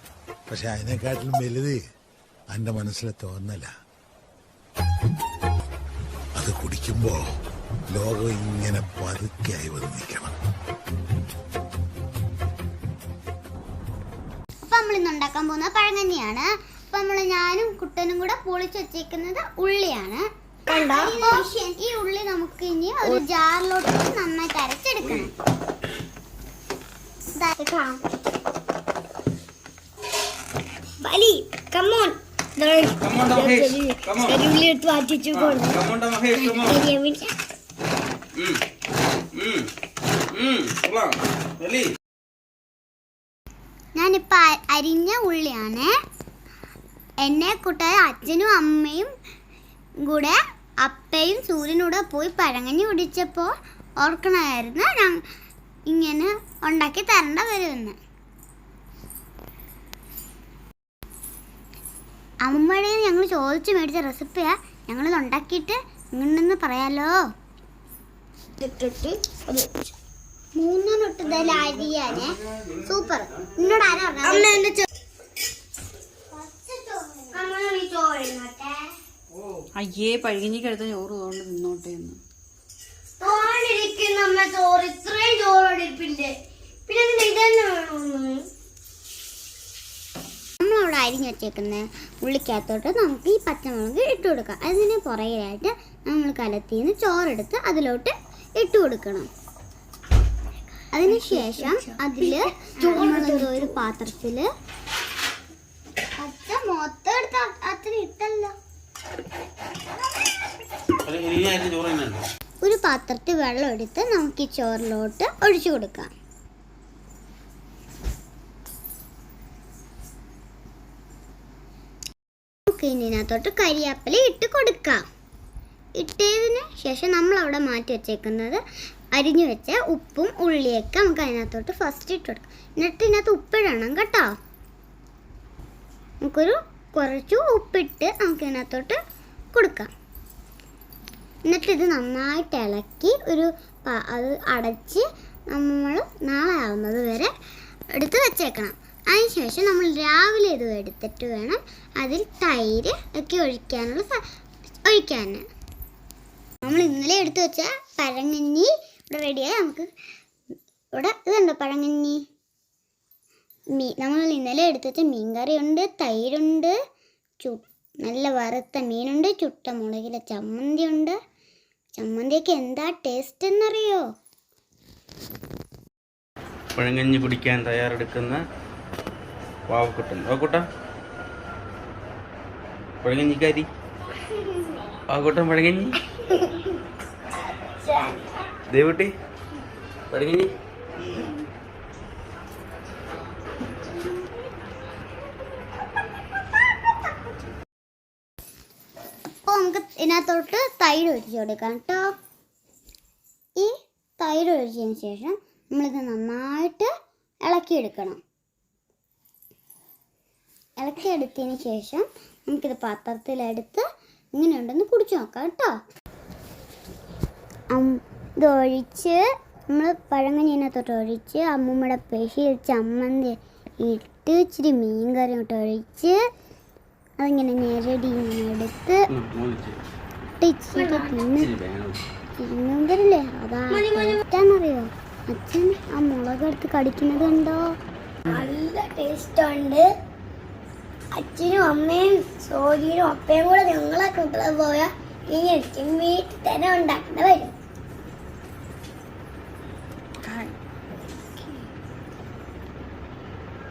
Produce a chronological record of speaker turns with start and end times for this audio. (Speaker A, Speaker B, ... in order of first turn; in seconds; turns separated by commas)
Speaker A: 0.5-1.8, Speaker A: 2.5-3.7, Speaker A: 6.4-7.2, Speaker A: 7.9-10.3, Speaker B: 14.6-25.3, Speaker C: 20.7-21.5, Speaker C: 27.6-28.0, Speaker C: 31.0-35.8, Speaker D: 33.0-34.4, Speaker D: 35.3-36.8, Speaker C: 36.3-37.3, Speaker D: 39.3-39.7, Speaker D: 40.3-41.9, Speaker B: 44.0-45.9, Speaker B: 47.2-49.1, Speaker B: 50.0-55.2, Speaker B: 55.9-58.0, Speaker B: 62.5-67.2, Speaker C: 68.6-69.9, Speaker B: 70.6-74.7, Speaker C: 74.4-74.8, Speaker B: 76.3-77.5, Speaker C: 77.3-79.0, Speaker E: 79.8-82.2, Speaker C: 83.2-86.4, Speaker C: 86.9-88.5, Speaker B: 90.6-99.3, Speaker B: 100.9-104.5, Speaker C: 101.3-101.9, Speaker C: 102.6-103.7, Speaker B: 106.2-108.5, Speaker D: 111.0-112.3, Speaker B: 112.6-116.1, Speaker B: 122.7-125.0, Speaker B: 126.0-128.6, Speaker B: 129.2-134.3, Speaker B: 136.2-139.0, Speaker B: 139.5-139.9, Speaker B: 141.5-147.3, Speaker B: 147.9-154.2, Speaker B: 154.9-155.4, Speaker B: 156.6-159.9, Speaker B: 160.9-162.2, Speaker B: 163.8-166.8, Speaker B: 167.4-171.2, Speaker B: 172.0-174.1, Speaker D: 176.8-178.4, Speaker D: 179.7-180.7, Speaker D: 183.0-183.7, Speaker D: 185.1-186.0, Speaker C: 187.8-188.2, Speaker D: 188.7-189.1, Speaker D: 190.1-190.5, Speaker B: 199.5-202.2, Speaker B: 203.6-206.9, Speaker B: 207.4-208.2, Speaker B: 210.8-215.8, Speaker B: 217.7-226.2, Speaker B: 227.2-229.0, Speaker D: 229.1-229.8, Speaker B: 230.4-231.5, Speaker C: 230.8-231.1, Speaker D: 231.4-232.0, Speaker B: 232.4-237.7, Speaker C: 233.9-234.2, Speaker C: 238.3-239.9, Speaker C: 241.1-247.5, Speaker E: 250.2-250.6, Speaker E: 251.4-251.6